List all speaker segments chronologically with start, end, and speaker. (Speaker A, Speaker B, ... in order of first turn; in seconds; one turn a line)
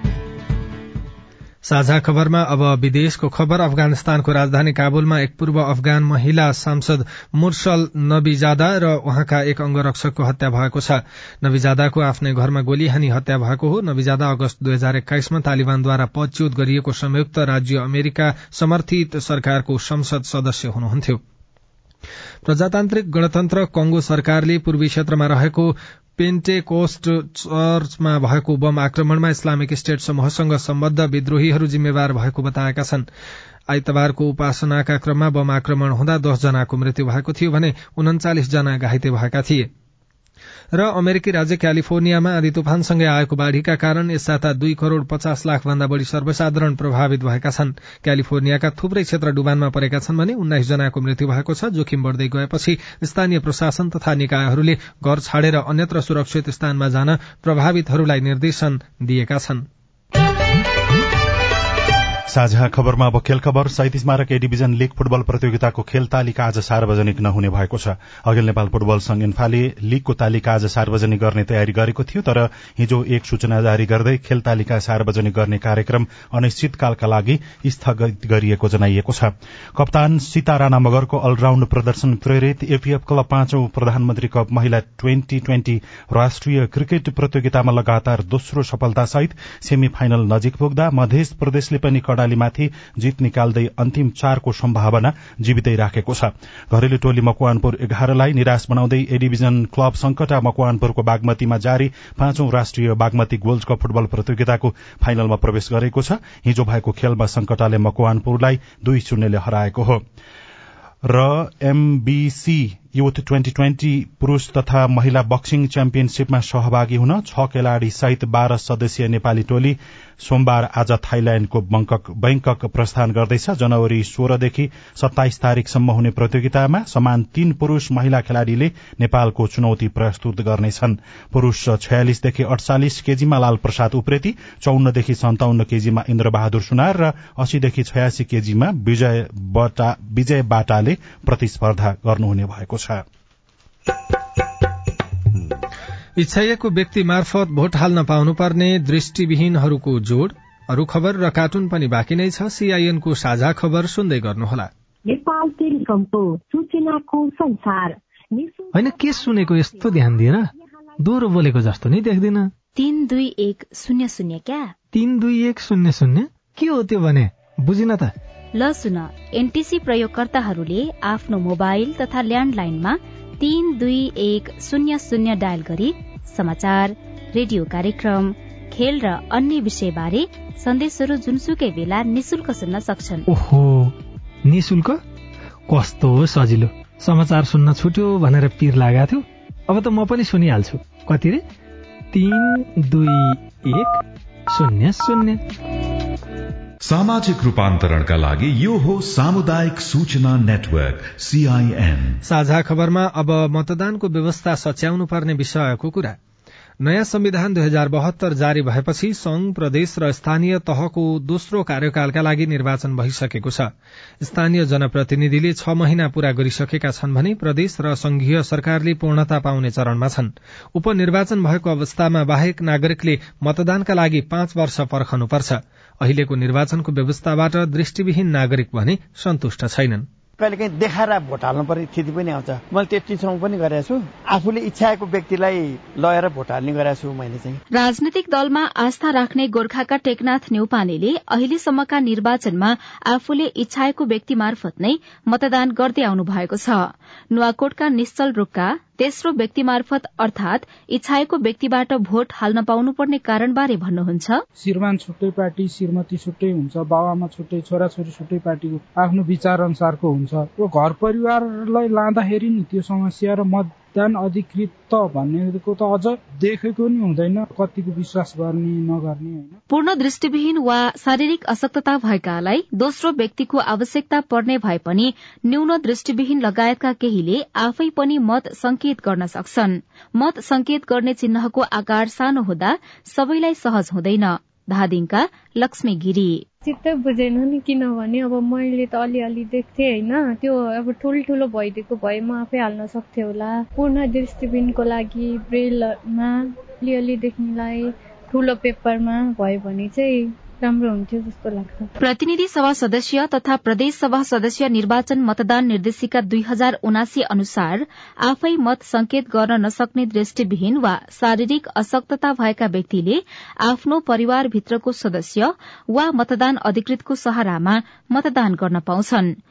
Speaker A: 1.7-21.2
Speaker A: 22.5-33.0
Speaker A: 33.7-39.7
Speaker A: 40.8-59.6
Speaker B: 62.3-110.0
Speaker B: 111.0-143.0
Speaker A: 146.2-154.7
Speaker C: 155.1-157.9
Speaker D: 158.7-162.5
Speaker E: 162.8-164.7
Speaker D: 164.9-168.1
Speaker E: 168.6-183.3
Speaker D: 183.3-183.9
Speaker D: 184.5-185.0
Speaker D: 185.7-191.4
Speaker D: 192.1-195.4
Speaker F: 196.8-202.2
Speaker A: 202.3-206.2
Speaker A: 206.8-213.7
Speaker A: 214.2-230.1
Speaker C: 230.4-237.6
Speaker E: 237.7-254.4
Speaker G: 254.6-269.6
Speaker E: 269.7-286.4
Speaker H: 286.6-301.9
Speaker E: 302.0-319.3